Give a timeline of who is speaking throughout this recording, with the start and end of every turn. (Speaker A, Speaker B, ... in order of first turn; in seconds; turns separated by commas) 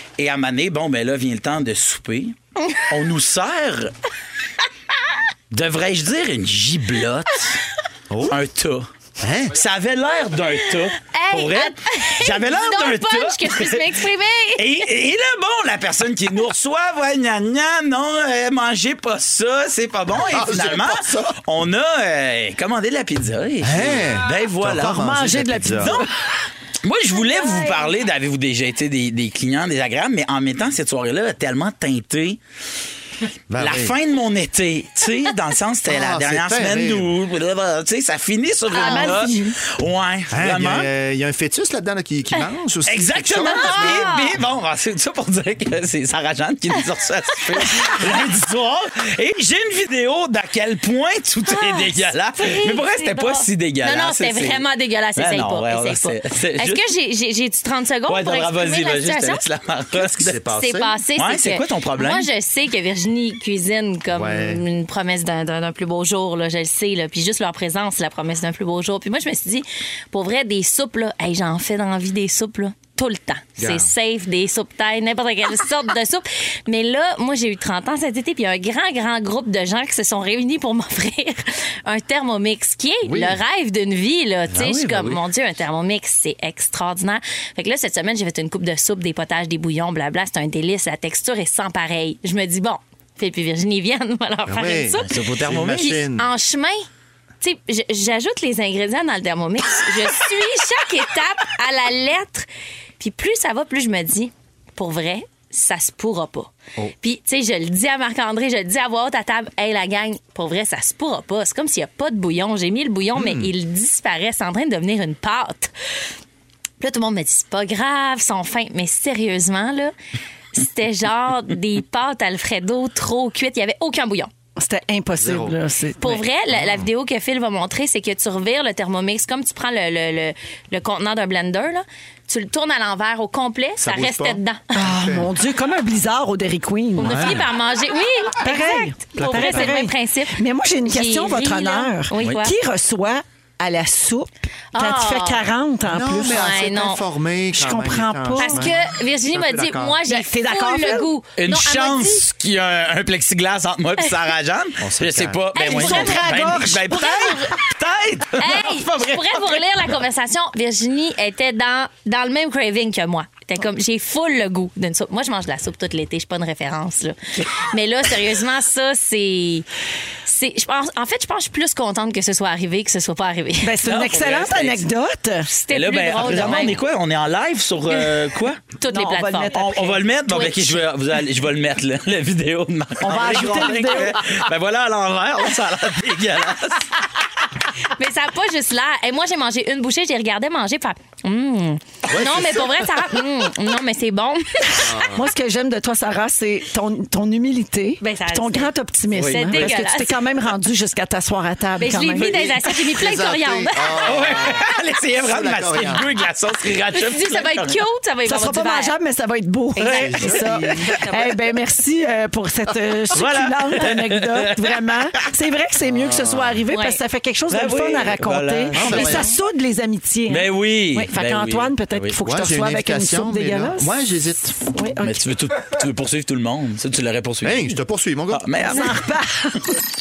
Speaker A: 0.2-3.9, Speaker A: 5.5-7.6, Speaker B: 8.1-8.4, Speaker A: 8.3-8.9, Speaker B: 9.2-9.6, Speaker A: 9.5-14.0, Speaker C: 11.0-14.9, Speaker A: 14.6-25.1, Speaker B: 20.2-21.4, Speaker B: 23.6-26.0, Speaker D: 24.9-26.1, Speaker A: 25.8-26.1, Speaker A: 26.8-32.4, Speaker C: 27.3-27.8, Speaker B: 33.5-34.0, Speaker A: 33.6-40.9, Speaker B: 35.9-37.1, Speaker D: 38.7-39.5, Speaker C: 38.7-39.5, Speaker B: 40.3-44.1, Speaker A: 42.9-54.6, Speaker C: 43.4-44.4, Speaker C: 51.5-59.4, Speaker A: 55.2-56.8, Speaker A: 58.1-60.4, Speaker B: 60.0-61.0, Speaker C: 60.5-95.2, Speaker A: 61.2-62.3, Speaker B: 64.1-64.6, Speaker B: 73.6-73.9, Speaker B: 83.0-83.4, Speaker B: 84.5-85.2, Speaker B: 94.5-96.3, Speaker A: 95.1-96.0, Speaker C: 95.8-96.8, Speaker C: 97.4-102.5, Speaker C: 103.0-115.7, Speaker B: 113.2-113.5, Speaker C: 116.8-119.9, Speaker C: 120.5-124.3, Speaker D: 124.6-126.2, Speaker B: 125.2-125.6, Speaker C: 126.0-134.6, Speaker B: 126.5-126.8, Speaker B: 133.8-135.3, Speaker D: 134.7-137.4, Speaker C: 137.0-142.6, Speaker B: 137.0-137.4, Speaker D: 138.4-146.4, Speaker B: 139.2-139.8, Speaker C: 144.7-145.4, Speaker B: 145.9-150.0, Speaker C: 146.3-147.0, Speaker D: 147.5-148.7, Speaker C: 148.4-152.3, Speaker D: 150.0-151.1, Speaker A: 151.4-159.6, Speaker B: 154.8-155.4, Speaker C: 155.6-157.5, Speaker D: 155.6-157.2, Speaker C: 158.4-169.7, Speaker C: 170.2-173.8, Speaker D: 173.6-175.5, Speaker A: 173.8-174.8, Speaker C: 175.5-176.8, Speaker A: 175.7-178.7, Speaker C: 178.8-179.6, Speaker D: 178.9-180.0, Speaker A: 179.4-186.9, Speaker C: 180.3-180.9, Speaker D: 183.0-184.2, Speaker C: 187.8-195.0, Speaker B: 192.1-192.9, Speaker B: 194.8-195.2, Speaker D: 195.1-202.7, Speaker C: 198.0-200.2, Speaker A: 199.1-199.8, Speaker C: 201.8-204.1, Speaker B: 202.8-204.7, Speaker A: 204.0-207.8, Speaker B: 205.2-206.1, Speaker C: 206.9-208.9, Speaker D: 208.3-223.9, Speaker C: 209.8-211.2, Speaker A: 209.8-211.0, Speaker B: 209.9-210.9, Speaker A: 213.1-215.0, Speaker B: 215.9-216.6, Speaker C: 216.7-217.0, Speaker A: 217.5-219.3, Speaker B: 218.7-219.4, Speaker A: 220.3-222.2, Speaker B: 222.2-224.6, Speaker D: 224.7-225.2, Speaker A: 225.0-227.8, Speaker B: 227.4-228.5, Speaker A: 228.3-229.1, Speaker D: 228.7-229.7